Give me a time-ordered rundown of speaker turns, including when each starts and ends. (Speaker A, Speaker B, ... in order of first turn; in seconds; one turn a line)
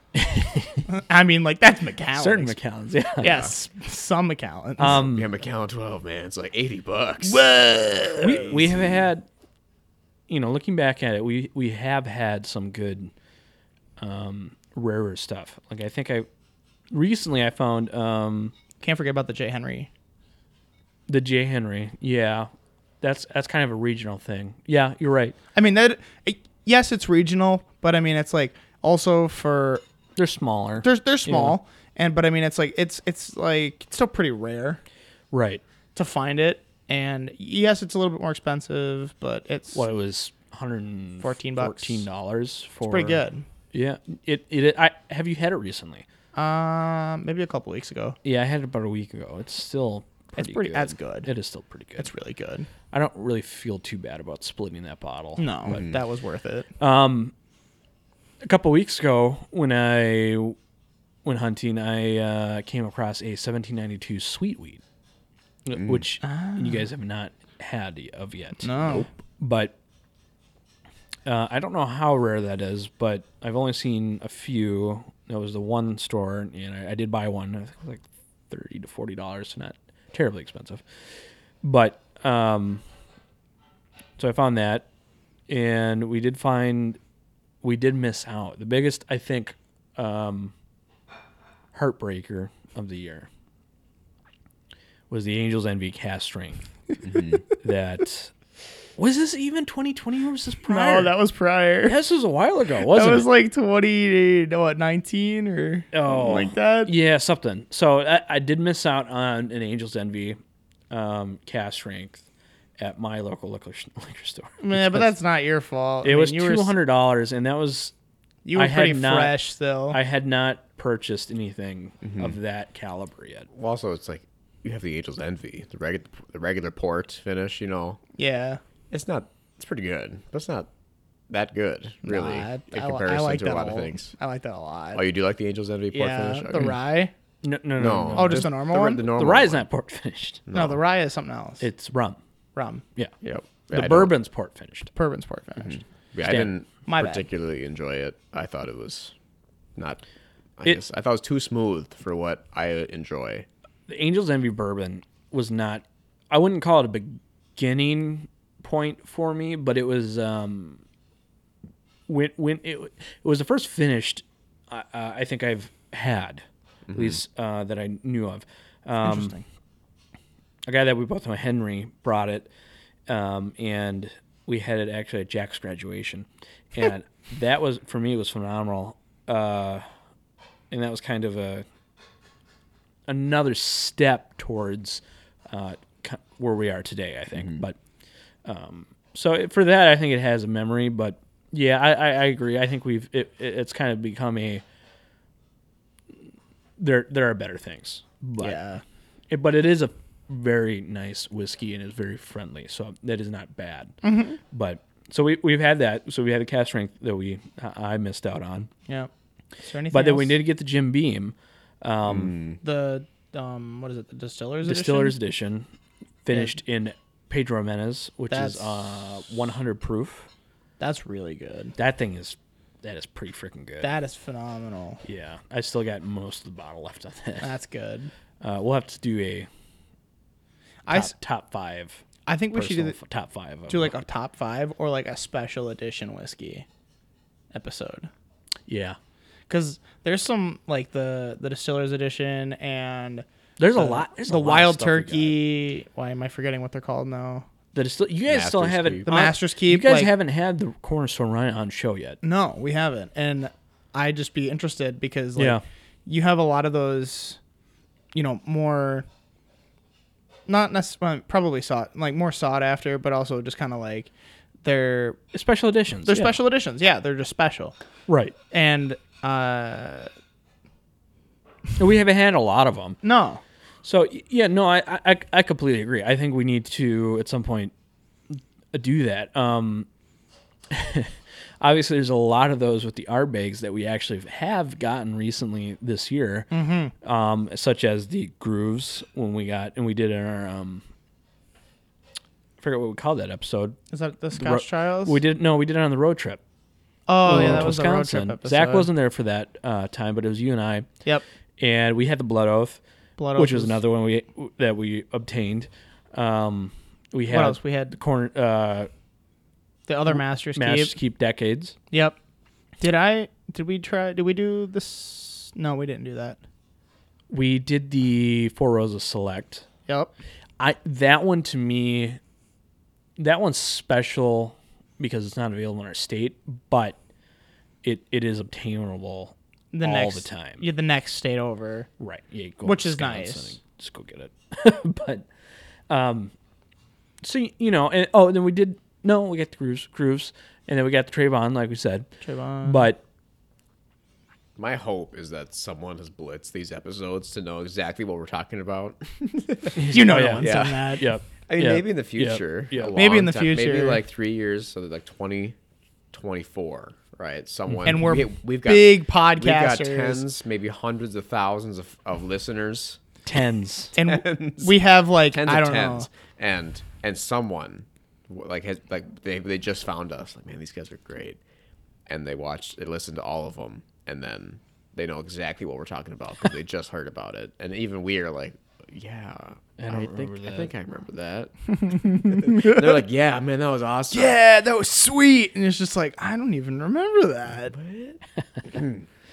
Speaker A: 0.1-0.9
Speaker B: 0.9-2.5
Speaker A: 2.1-3.4
Speaker B: 3.2-5.0
Speaker C: 3.2-3.5
Speaker A: 4.8-5.3
Speaker C: 4.8-8.9
Speaker B: 7.2-8.6
Speaker A: 8.2-9.3
Speaker A: 10.3-13.1
Speaker A: 14.0-16.3
Speaker A: 16.9-18.5
Speaker B: 18.8-19.9
Speaker A: 21.1-22.5
Speaker A: 23.0-25.4
Speaker B: 25.5-29.8
Speaker A: 30.2-31.6
Speaker B: 30.8-34.8
Speaker A: 35.3-35.6
Speaker B: 35.9-39.8
Speaker A: 39.7-43.2
Speaker B: 41.2-42.0
Speaker B: 42.9-43.5
Speaker A: 43.7-46.0
Speaker B: 46.4-48.2
Speaker A: 48.2-52.1
Speaker B: 50.4-51.3
Speaker B: 52.0-52.7
Speaker A: 52.9-55.5
Speaker B: 55.4-56.7
Speaker C: 55.7-56.0
Speaker A: 56.8-57.3
Speaker A: 58.4-60.6
Speaker A: 61.2-64.8
Speaker A: 65.6-68.8
Speaker C: 65.8-66.0
Speaker B: 66.2-66.8
Speaker B: 68.6-69.0
Speaker A: 69.4-69.8
Speaker A: 71.2-80.8
Speaker A: 81.6-82.8
Speaker A: 84.2-84.9
Speaker A: 85.5-87.0
Speaker A: 87.6-90.5
Speaker A: 91.7-93.3
Speaker A: 95.1-96.7
Speaker C: 97.0-97.4
Speaker A: 97.6-98.3
Speaker A: 99.0-101.1
Speaker B: 100.7-102.0
Speaker A: 101.8-103.3
Speaker B: 102.9-106.9
Speaker A: 105.9-110.4
Speaker A: 110.9-112.2
Speaker A: 112.8-115.1
Speaker B: 114.6-116.7
Speaker A: 116.0-117.9
Speaker B: 118.4-120.0
Speaker A: 118.5-119.4
Speaker A: 119.9-123.5
Speaker C: 122.0-122.3
Speaker C: 123.5-128.0
Speaker B: 128.2-128.6
Speaker C: 128.9-130.7
Speaker C: 131.3-134.1
Speaker B: 132.0-135.0
Speaker C: 134.9-136.8
Speaker B: 135.9-137.1
Speaker A: 137.4-140.4
Speaker C: 137.8-139.7
Speaker B: 138.1-139.0
Speaker C: 140.4-140.8
Speaker B: 140.5-141.7
Speaker A: 141.6-142.2
Speaker B: 142.6-142.8
Speaker C: 143.2-144.1
Speaker A: 143.7-144.9
Speaker B: 144.9-145.8
Speaker C: 145.6-149.1
Speaker A: 146.2-146.5
Speaker B: 146.9-147.2
Speaker C: 149.8-150.0
Speaker C: 150.6-153.4
Speaker A: 153.9-160.8
Speaker A: 162.1-169.3
Speaker C: 166.9-167.2
Speaker B: 169.0-169.4
Speaker A: 170.7-172.5
Speaker A: 173.1-179.9
Speaker A: 180.7-181.6
Speaker A: 183.1-187.8
Speaker C: 187.4-187.6
Speaker A: 188.4-194.6
Speaker A: 196.8-198.6
Speaker B: 198.4-198.8
Speaker A: 199.3-203.9
Speaker B: 204.0-204.4
Speaker A: 204.5-208.7
Speaker B: 209.6-210.4
Speaker A: 209.9-212.4
Speaker C: 212.0-212.6
Speaker B: 212.6-215.2
Speaker A: 214.6-215.7
Speaker A: 216.2-220.3
Speaker B: 218.3-218.7
Speaker B: 220.8-221.8
Speaker A: 221.8-223.9
Speaker B: 223.8-225.0
Speaker A: 225.0-227.5
Speaker B: 227.4-228.1
Speaker A: 228.4-229.5
Speaker B: 230.9-231.1
Speaker A: 230.9-233.9
Speaker B: 232.2-233.0
Speaker B: 233.7-236.7
Speaker B: 237.5-238.1
Speaker A: 238.7-239.0
Speaker B: 239.5-247.4
Speaker A: 243.6-245.4
Speaker A: 247.7-252.2
Speaker C: 248.3-249.2
Speaker B: 249.0-250.1
Speaker B: 252.2-257.4
Speaker A: 255.4-255.6
Speaker B: 258.1-259.1
Speaker B: 260.5-264.1
Speaker B: 264.6-265.2
Speaker A: 265.3-266.4
Speaker B: 266.1-267.8
Speaker A: 268.1-268.4
Speaker B: 268.5-270.1
Speaker A: 271.8-273.0
Speaker B: 273.0-273.4
Speaker A: 273.8-277.7
Speaker A: 278.3-279.9
Speaker A: 280.7-286.5
Speaker B: 286.5-286.9
Speaker A: 287.0-290.9
Speaker A: 292.6-293.8
Speaker B: 293.9-295.2
Speaker A: 294.4-296.4
Speaker B: 297.1-298.9
Speaker A: 297.2-300.9
Speaker A: 301.6-302.8
Speaker B: 303.2-303.8
Speaker A: 303.4-308.9
Speaker B: 307.3-307.9
Speaker B: 309.9-310.9
Speaker A: 310.1-311.8
Speaker B: 311.9-312.2
Speaker B: 312.8-316.4
Speaker A: 317.3-319.6
Speaker B: 319.9-320.1
Speaker A: 320.6-322.2
Speaker A: 323.2-326.9
Speaker A: 327.8-330.6
Speaker B: 329.7-331.9
Speaker A: 332.0-335.2
Speaker B: 332.6-333.6
Speaker A: 335.9-336.3
Speaker A: 337.2-342.1
Speaker B: 342.2-342.9
Speaker A: 342.6-343.0
Speaker C: 344.6-355.6
Speaker A: 349.8-353.0
Speaker B: 349.9-351.1
Speaker B: 352.9-354.0
Speaker C: 356.1-363.0
Speaker B: 357.9-360.2
Speaker A: 363.2-363.9
Speaker B: 363.9-366.1
Speaker C: 364.0-371.4
Speaker C: 372.1-384.4
Speaker A: 379.8-380.7
Speaker B: 382.1-382.8
Speaker B: 384.1-387.8
Speaker C: 387.6-388.2
Speaker C: 388.7-389.0